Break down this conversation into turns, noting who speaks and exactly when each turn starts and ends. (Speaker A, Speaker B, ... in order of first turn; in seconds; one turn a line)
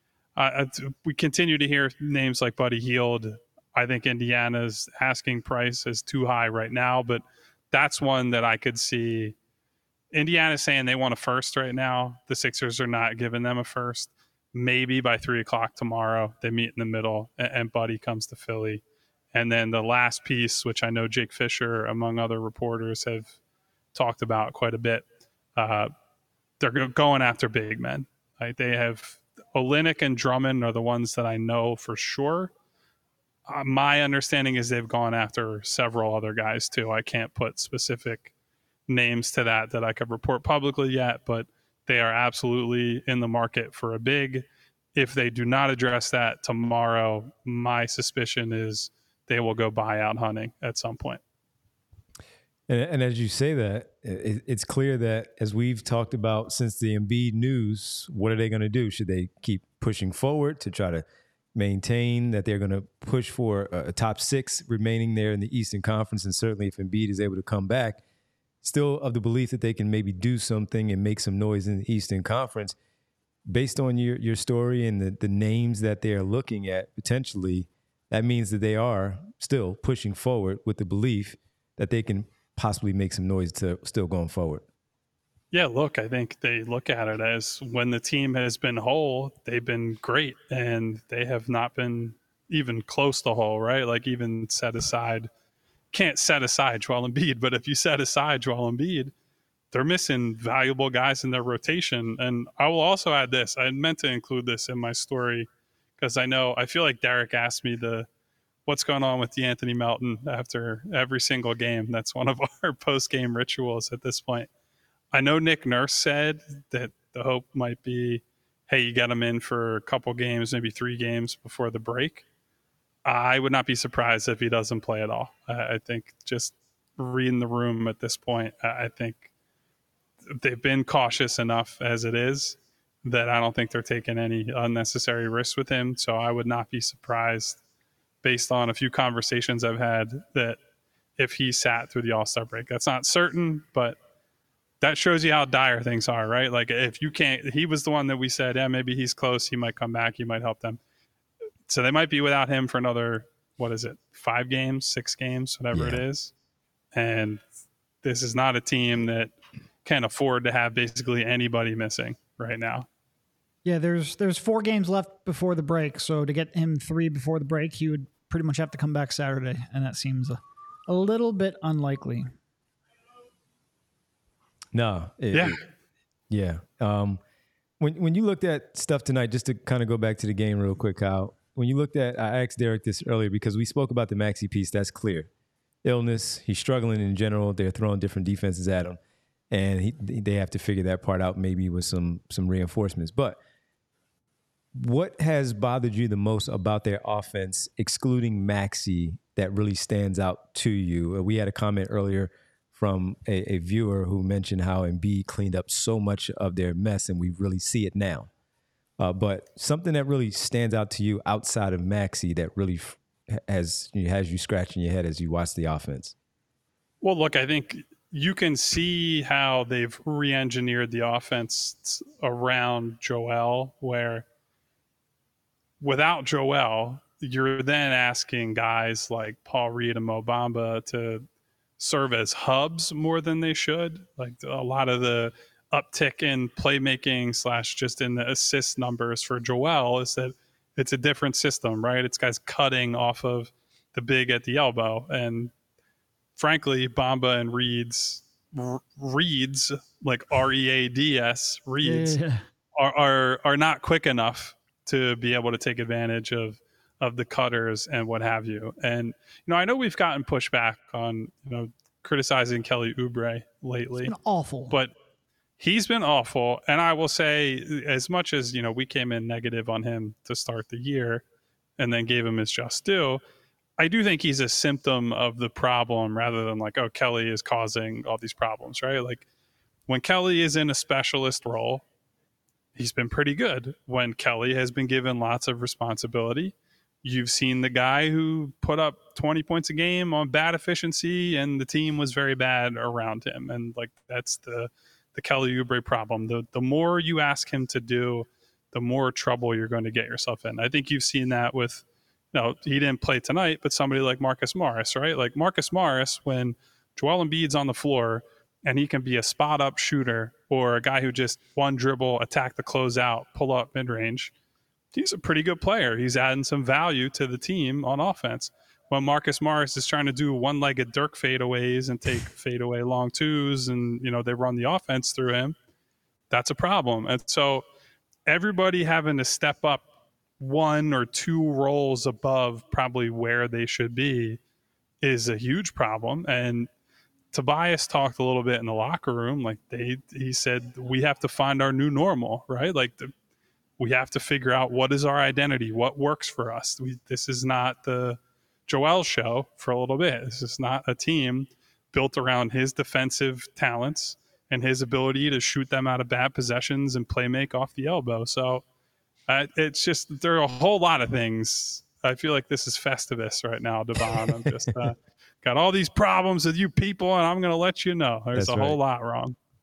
Speaker A: 0.4-9.3
Speaker A: 10.1-18.8
Speaker A: 19.3-23.4
Speaker A: 23.9-25.9
Speaker A: 26.6-32.5
Speaker A: 33.5-38.3
Speaker A: 38.9-51.2
Speaker B: 52.7-68.0
Speaker B: 68.6-72.8
Speaker B: 73.5-84.7
Speaker A: 85.5-95.3
Speaker A: 95.9-99.1
Speaker A: 99.7-108.1
Speaker A: 108.7-114.5
Speaker A: 115.1-122.2
Speaker A: 123.0-129.3
Speaker A: 130.3-137.6
Speaker A: 138.2-140.6
Speaker A: 141.2-144.0
Speaker A: 144.8-150.8
Speaker A: 151.7-156.3
Speaker B: 155.7-156.0
Speaker A: 156.9-157.4
Speaker A: 158.0-159.3
Speaker A: 159.8-162.9
Speaker C: 163.7-172.3
Speaker B: 174.7-175.6
Speaker A: 175.3-175.6
Speaker B: 176.3-177.2
Speaker B: 177.8-185.3
Speaker B: 185.8-189.0
Speaker B: 189.5-193.4
Speaker B: 194.8-208.3
Speaker B: 209.0-216.1
Speaker A: 217.0-224.3
Speaker A: 225.8-231.3
Speaker A: 231.8-245.5
Speaker A: 246.4-252.2
Speaker C: 251.8-252.4
Speaker A: 252.8-264.1
Speaker C: 264.0-264.8
Speaker A: 265.6-271.2
Speaker A: 271.8-273.2
Speaker A: 273.8-279.2
Speaker A: 279.9-281.8
Speaker A: 282.8-314.3
Speaker A: 314.9-325.6
Speaker A: 326.3-327.6
Speaker A: 328.3-329.9
Speaker A: 330.4-334.4
Speaker A: 335.0-336.7
Speaker A: 337.3-343.1
Speaker A: 343.8-358.6
Speaker A: 359.3-369.4
Speaker B: 368.3-368.8